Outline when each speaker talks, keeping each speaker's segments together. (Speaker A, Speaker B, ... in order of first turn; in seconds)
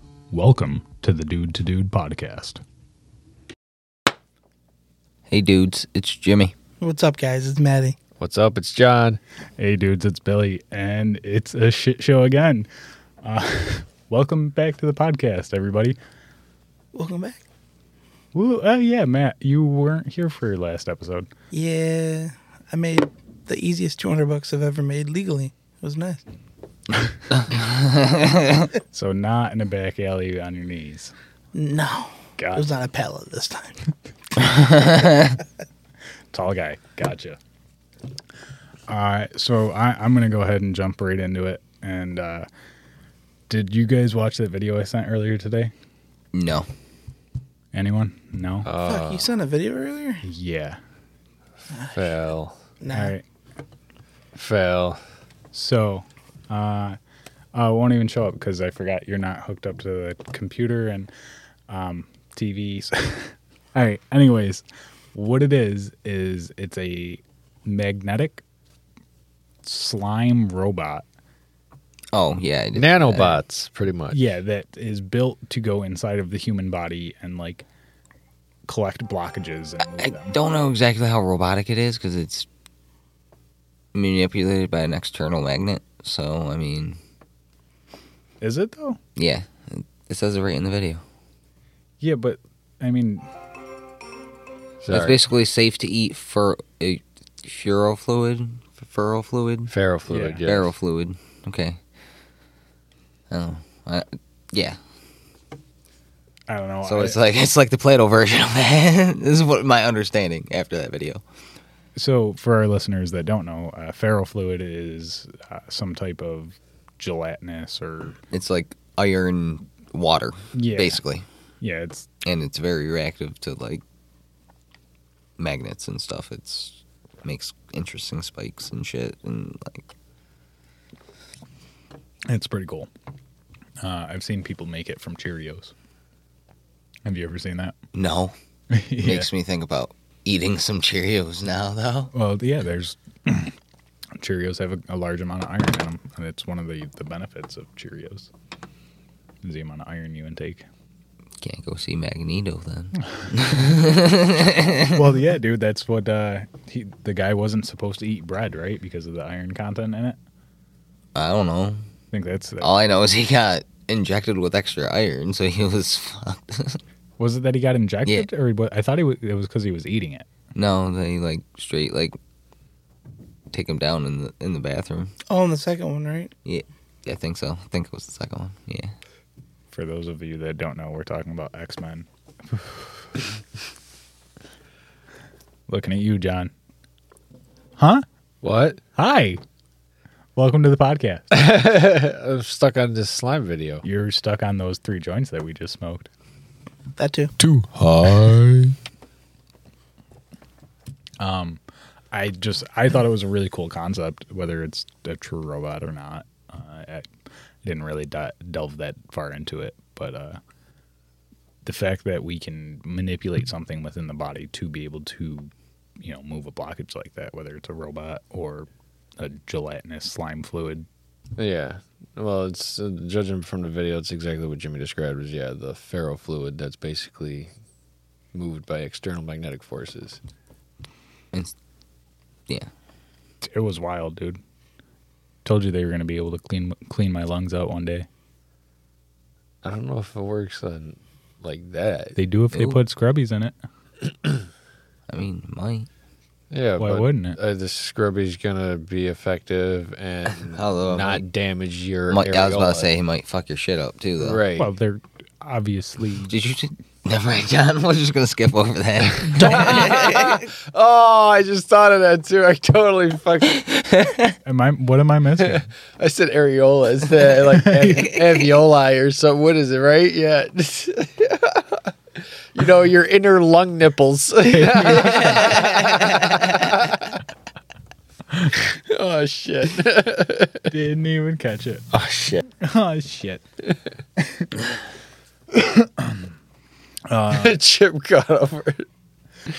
Speaker A: 0.3-2.6, 9.6-12.7, 13.2-16.0, 18.3-21.3, 28.9-31.1, 32.4-32.7, 36.3-37.4, 38.9-42.5, 43.5-45.7, 47.7-48.7, 50.2-50.8, 52.9-53.2, 55.5-57.0, 57.5-61.1, 61.7-68.4, 69.6-71.1, 74.1-77.7, 78.7-80.3, 88.4-89.0, 92.0-93.3, 100.1-100.4, 106.5-107.2, 112.0-118.2, 120.5-121.0, 121.6-122.1, 132.3-132.9, 133.8-135.7, 137.1-137.8, 138.7-139.3, 142.1-143.6, 144.2-148.3, 149.4-150.7, 154.9-160.2, 162.1-162.7, 167.2-170.3, 179.7-182.8, 185.7-186.5, 187.8-188.0, 189.0-189.4, 190.4-191.4, 193.8-196.1, 197.4-198.6, 201.2-201.6, 202.1-207.1, 207.6-210.4, 211.7-220.9, 233.4-234.4, 235.4-238.1, 242.2-243.6, 246.8-247.4, 254.6-256.3, 264.4-265.7, 267.6-268.2, 274.4-275.7, 280.7-281.9, 282.5-283.4, 284.2-284.5, 285.5-286.3, 287.1-287.6
Speaker B: 5.3-6.5, 27.3-28.7, 34.4-35.4, 46.3-46.7, 72.1-73.4, 80.0-82.5, 83.9-87.0, 89.2-91.0, 94.9-99.7, 100.5-101.8, 103.3-104.8, 106.9-111.2, 118.3-121.2, 122.2-123.8, 125.4-129.9, 137.9-138.3, 139.0-142.1, 151.4-155.0, 161.2-161.8, 162.6-166.8, 170.6-172.2, 173.5-175.1, 176.4-178.9, 245.1-245.9, 250.5-251.2, 252.1-254.4, 256.3-260.5, 263.7-264.3, 275.4-276.3
Speaker C: 6.8-8.0, 16.9-17.4, 21.5-26.2, 31.5-33.8, 48.8-50.2, 51.7-52.0, 52.8-53.1, 175.3-176.3, 197.0-197.3, 259.4-259.9
Speaker D: 8.2-9.2, 48.6-49.3, 51.8-52.6, 54.4-55.0, 72.8-74.2, 94.8-95.2, 99.7-100.7, 188.4-188.8, 191.3-193.8, 197.8-198.3, 221.4-227.5, 228.3-230.2, 239.6-242.2, 246.5-252.9, 254.2-254.7, 259.3-263.7, 265.4-271.8, 272.5-277.1, 278.6-280.7, 281.9-282.4, 287.3-288.9